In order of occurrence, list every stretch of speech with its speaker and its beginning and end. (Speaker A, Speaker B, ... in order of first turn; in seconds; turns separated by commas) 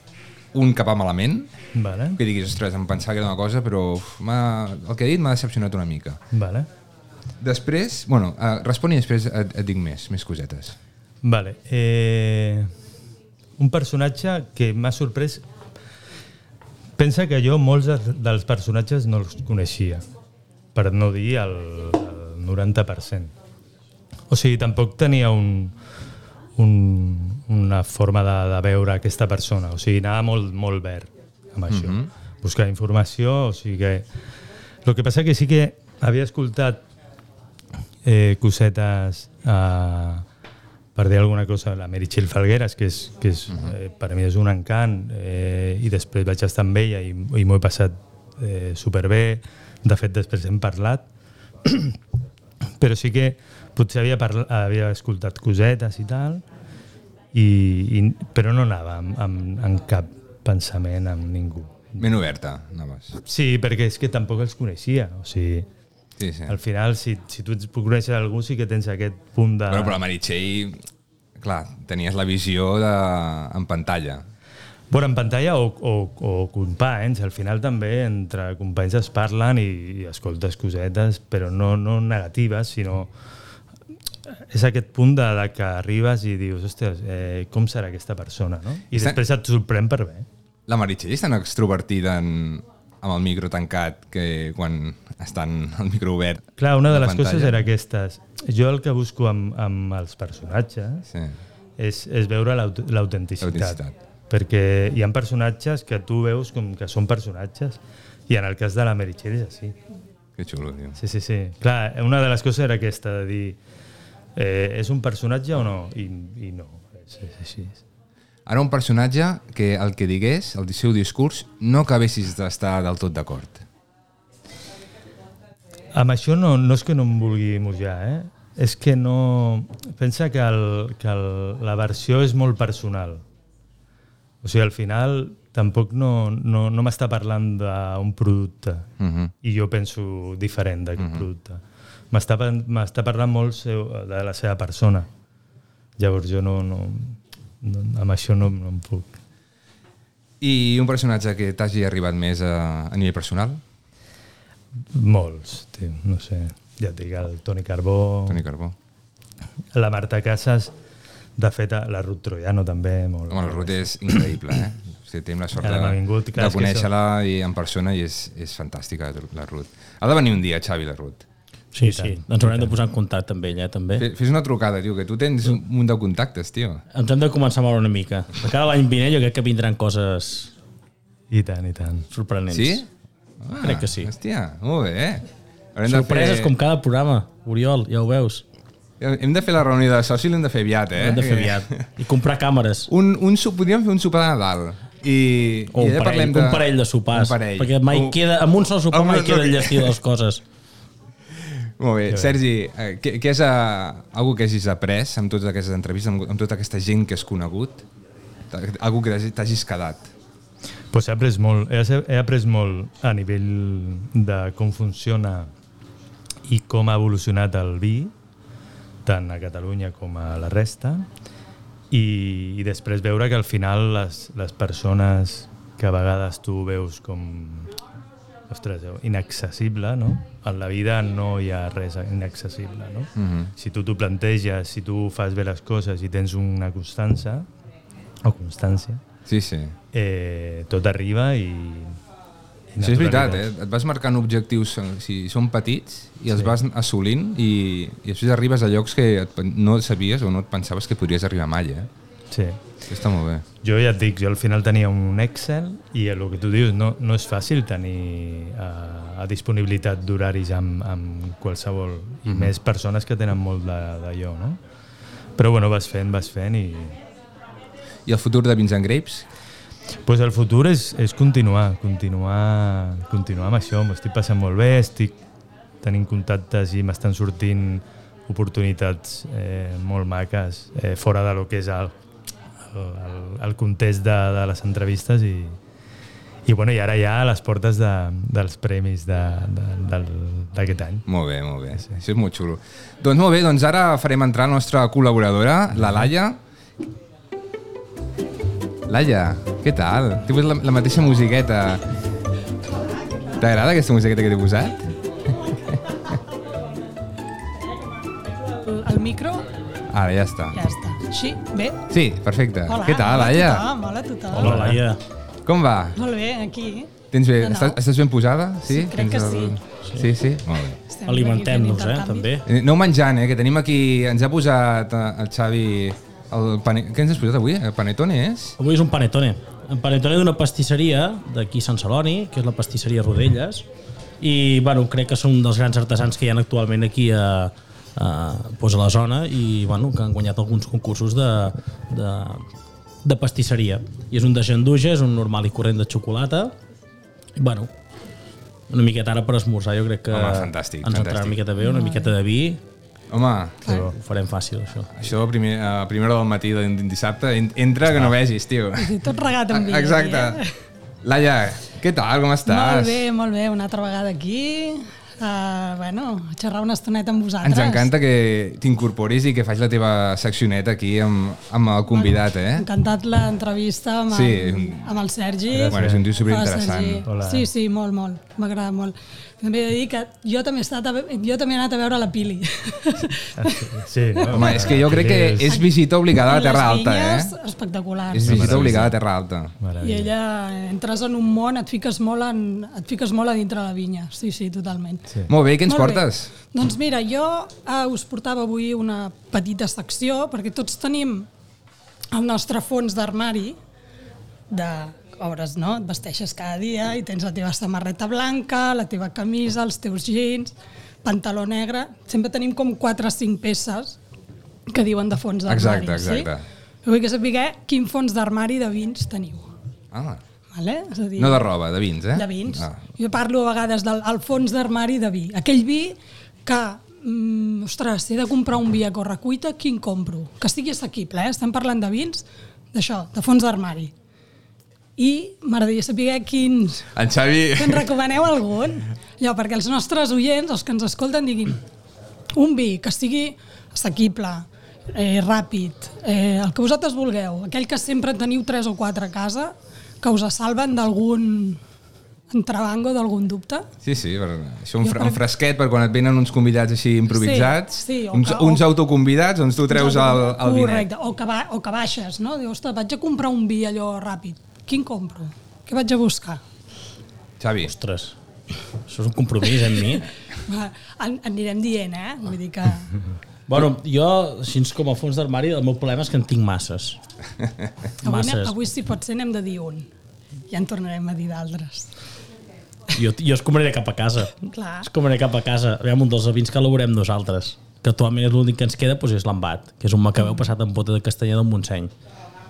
Speaker A: 0.5-1.5, Speaker B: 1.7-2.2, Speaker A: 2.2-6.2, Speaker B: 6.3-6.7, Speaker A: 7.4-10.8, Speaker B: 11.2-12.7, Speaker B: 13.6-15.5, Speaker B: 17.0-20.0, Speaker B: 20.8-23.3, Speaker B: 24.3-25.7, Speaker B: 26.6-34.1, Speaker A: 31.7-32.1, Speaker B: 34.9-36.8, Speaker B: 38.0-40.2, Speaker B: 41.0-51.0, Speaker B: 51.6-52.0, Speaker B: 52.8-56.4, Speaker B: 57.3-62.1, Speaker A: 62.0-63.2, Speaker B: 63.2-65.7, Speaker A: 66.2-66.6, Speaker B: 66.5-70.0, Speaker A: 69.7-70.8, Speaker A: 71.4-74.3, Speaker B: 74.9-83.1, Speaker B: 84.5-90.3, Speaker A: 88.9-89.2, Speaker A: 90.7-97.7, Speaker B: 96.6-101.1, Speaker A: 101.1-101.4, Speaker B: 101.8-109.8, Speaker A: 103.4-104.0, Speaker A: 110.4-111.0, Speaker B: 111.0-113.6, Speaker B: 114.4-117.8, Speaker A: 118.5-123.7, Speaker B: 125.9-133.2, Speaker B: 134.4-138.9, Speaker A: 139.0-139.3, Speaker B: 139.4-145.1, Speaker A: 141.0-141.2, Speaker B: 146.0-149.2, Speaker A: 150.4-153.6, Speaker B: 154.9-158.4, Speaker A: 158.3-158.8, Speaker B: 159.7-160.7, Speaker B: 161.4-164.3, Speaker A: 163.3-171.3, Speaker B: 165.6-166.9, Speaker C: 171.7-174.1, Speaker B: 171.8-172.8, Speaker A: 173.9-176.8, Speaker C: 176.9-180.5, Speaker B: 181.3-182.1, Speaker C: 182.1-182.8, Speaker A: 182.5-182.9, Speaker A: 183.4-186.6, Speaker C: 183.6-184.1, Speaker C: 185.8-188.4, Speaker A: 189.0-191.9, Speaker C: 191.0-192.9, Speaker A: 192.9-198.3, Speaker C: 195.7-200.4, Speaker A: 198.9-200.0, Speaker A: 201.8-207.8, Speaker B: 202.1-202.4, Speaker A: 208.5-210.1, Speaker B: 210.9-215.5, Speaker B: 216.5-218.1, Speaker B: 219.1-221.1, Speaker B: 221.9-227.7, Speaker B: 228.5-237.5, Speaker A: 233.2-233.5, Speaker B: 238.2-239.0, Speaker A: 239.3-239.8, Speaker B: 239.9-242.0, Speaker B: 242.7-243.5, Speaker A: 242.8-251.9, Speaker B: 246.3-246.6, Speaker B: 252.3-252.6, Speaker A: 252.9-253.4, Speaker B: 253.6-264.6, Speaker A: 262.3-262.5, Speaker B: 265.4-267.0, Speaker A: 268.1-269.3, Speaker B: 270.1-275.2, Speaker B: 275.8-281.9, Speaker B: 282.6-285.6, Speaker B: 286.5-291.1, Speaker A: 291.1-296.4, Speaker B: 291.7-292.0, Speaker B: 295.8-296.1, Speaker A: 298.9-301.9, Speaker A: 303.4-304.9, Speaker D: 308.4-309.5, Speaker A: 309.9-310.6, Speaker D: 310.5-311.9, Speaker A: 311.9-313.7, Speaker D: 312.7-314.6, Speaker C: 314.3-315.0, Speaker B: 314.4-314.8, Speaker A: 315.4-316.0, Speaker D: 315.9-317.8, Speaker A: 317.1-320.8, Speaker D: 318.7-319.6, Speaker D: 320.9-322.4, Speaker C: 321.1-322.5, Speaker A: 322.5-328.6, Speaker C: 328.6-333.7, Speaker C: 334.2-342.4, Speaker C: 343.0-346.5, Speaker C: 347.4-347.7, Speaker C: 348.7-352.6, Speaker A: 350.1-351.4, Speaker D: 351.6-352.2, Speaker A: 353.1-353.7, Speaker D: 353.6-353.9, Speaker C: 353.7-354.9, Speaker A: 354.9-360.4, Speaker D: 358.8-360.5, Speaker A: 361.0-363.1, Speaker D: 362.5-367.9, Speaker A: 367.4-372.7, Speaker D: 371.9-383.6, Speaker A: 374.1-374.9, Speaker B: 375.5-376.1, Speaker A: 375.7-377.1, Speaker B: 377.0-377.5, Speaker B: 383.4-385.6, Speaker A: 384.3-387.3, Speaker D: 385.4-388.8, Speaker A: 388.1-389.5, Speaker B: 388.2-388.9, Speaker B: 389.6-390.1, Speaker D: 389.8-395.1, Speaker A: 395.3-396.3, Speaker D: 395.6-401.3, Speaker D: 402.1-403.6, Speaker D: 404.5-414.0, Speaker D: 414.7-416.3, Speaker A: 415.4-416.4, Speaker D: 416.8-419.5, Speaker A: 419.9-420.2, Speaker D: 420.5-421.5, Speaker A: 421.2-422.8, Speaker D: 422.1-433.9, Speaker D: 435.0-436.9, Speaker A: 436.9-437.9, Speaker D: 437.5-441.6, Speaker D: 442.4-451.6, Speaker D: 452.3-453.7, Speaker A: 453.8-460.9, Speaker D: 454.8-455.2, Speaker D: 457.1-458.7, Speaker D: 459.7-466.4, Speaker A: 467.4-467.7, Speaker C: 467.7-468.2, Speaker C: 468.9-470.1, Speaker D: 470.5-473.0, Speaker C: 473.5-477.0, Speaker C: 478.0-478.6, Speaker D: 478.0-479.9, Speaker D: 480.5-481.9, Speaker C: 482.9-491.9, Speaker D: 484.5-484.9, Speaker D: 490.2-490.5